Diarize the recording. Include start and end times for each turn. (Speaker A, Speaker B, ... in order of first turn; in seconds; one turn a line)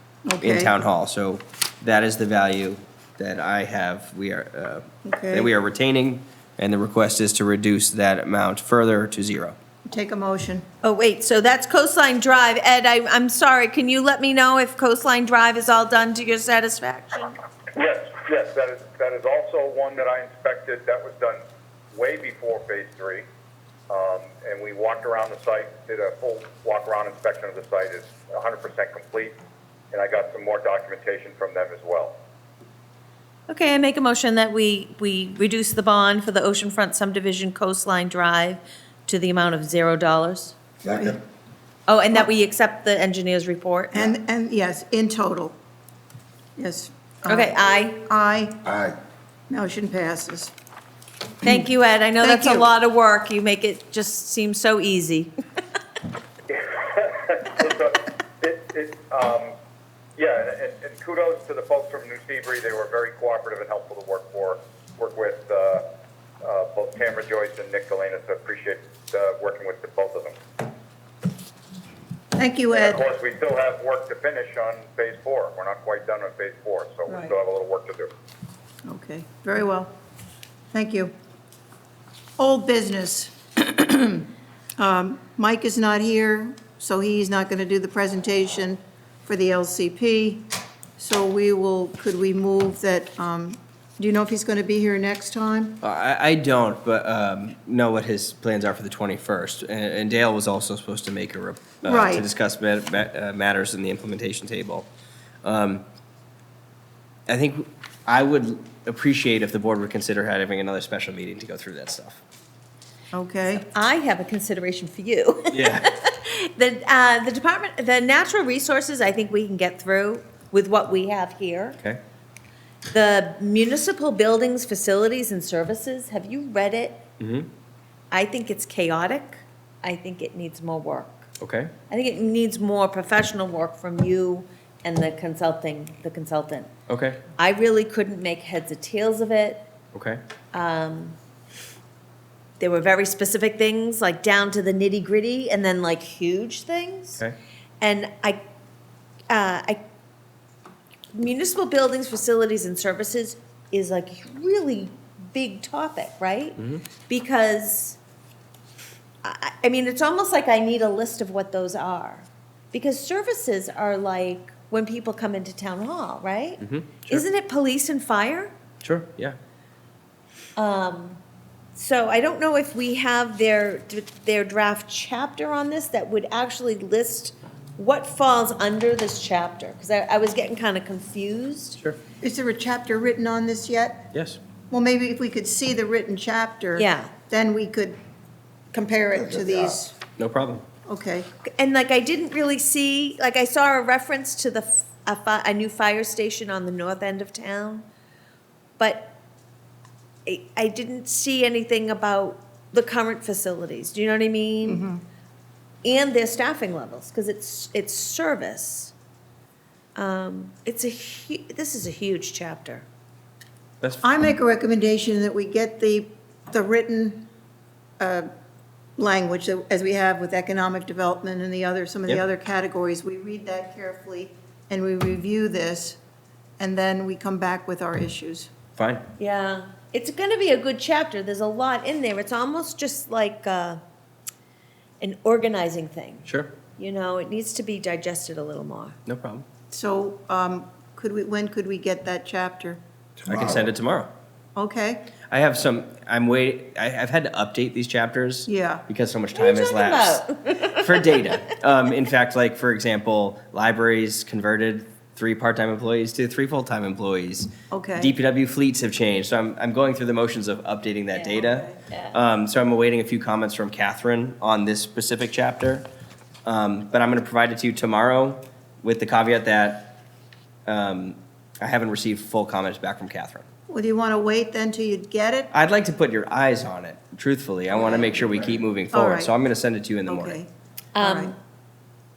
Speaker A: 0.2-0.7
Speaker B: 0.4-9.6
Speaker A: 5.0-5.5
Speaker A: 9.9-10.6
Speaker C: 10.8-17.4
Speaker D: 17.7-23.2
Speaker D: 23.9-29.4
Speaker D: 29.9-32.1
Speaker C: 33.5-40.5
Speaker A: 40.9-41.2
Speaker C: 41.9-44.1
Speaker A: 43.9-45.5
Speaker A: 46.6-48.7
Speaker C: 47.3-48.0
Speaker A: 49.5-50.5
Speaker C: 51.4-55.3
Speaker A: 52.2-52.7
Speaker D: 56.5-59.5
Speaker D: 60.1-65.8
Speaker D: 66.4-70.3
Speaker A: 72.3-73.0
Speaker D: 72.7-78.1
Speaker A: 78.8-79.9
Speaker A: 80.7-81.1
Speaker A: 82.4-84.3
Speaker A: 84.8-95.8
Speaker B: 95.8-104.9
Speaker A: 101.8-102.3
Speaker B: 105.4-105.8
Speaker B: 107.3-112.2
Speaker A: 113.1-113.7
Speaker C: 113.5-121.8
Speaker B: 115.5-115.9
Speaker C: 122.9-127.0
Speaker B: 127.2-127.5
Speaker C: 128.1-131.2
Speaker B: 131.4-131.7
Speaker C: 131.9-136.7
Speaker B: 136.9-137.2
Speaker C: 137.4-139.7
Speaker B: 139.9-140.2
Speaker C: 140.5-141.2
Speaker C: 142.6-147.2
Speaker C: 147.8-148.4
Speaker C: 149.3-149.8
Speaker C: 151.1-158.0
Speaker B: 156.6-156.8
Speaker C: 159.2-168.5
Speaker B: 166.6-167.2
Speaker B: 168.8-169.4
Speaker C: 170.6-171.2
Speaker C: 171.7-181.8
Speaker A: 182.2-184.1
Speaker B: 184.1-184.4
Speaker A: 184.7-187.9
Speaker C: 186.8-187.1
Speaker A: 188.7-189.9
Speaker B: 190.2-190.6
Speaker A: 190.8-191.3
Speaker C: 191.5-197.8
Speaker C: 198.8-199.1
Speaker C: 200.2-204.8
Speaker A: 204.6-205.0
Speaker C: 205.8-208.9
Speaker C: 209.9-212.8
Speaker A: 214.0-217.3
Speaker A: 218.0-218.3
Speaker A: 219.0-226.0
Speaker A: 226.6-228.5
Speaker B: 228.8-229.1
Speaker C: 229.2-233.8
Speaker C: 235.0-239.0
Speaker B: 236.2-236.5
Speaker B: 239.1-239.4
Speaker A: 239.7-242.8
Speaker B: 243.2-244.1
Speaker A: 244.5-245.1
Speaker B: 245.3-265.9
Speaker A: 248.4-248.8
Speaker C: 249.3-251.4
Speaker A: 257.7-258.1
Speaker A: 261.4-261.7
Speaker C: 261.9-262.2
Speaker B: 266.4-270.0
Speaker B: 270.7-273.4
Speaker A: 273.7-275.5
Speaker B: 275.5-280.4
Speaker A: 277.7-278.1
Speaker A: 278.9-279.3
Speaker A: 280.1-281.3
Speaker C: 280.9-281.3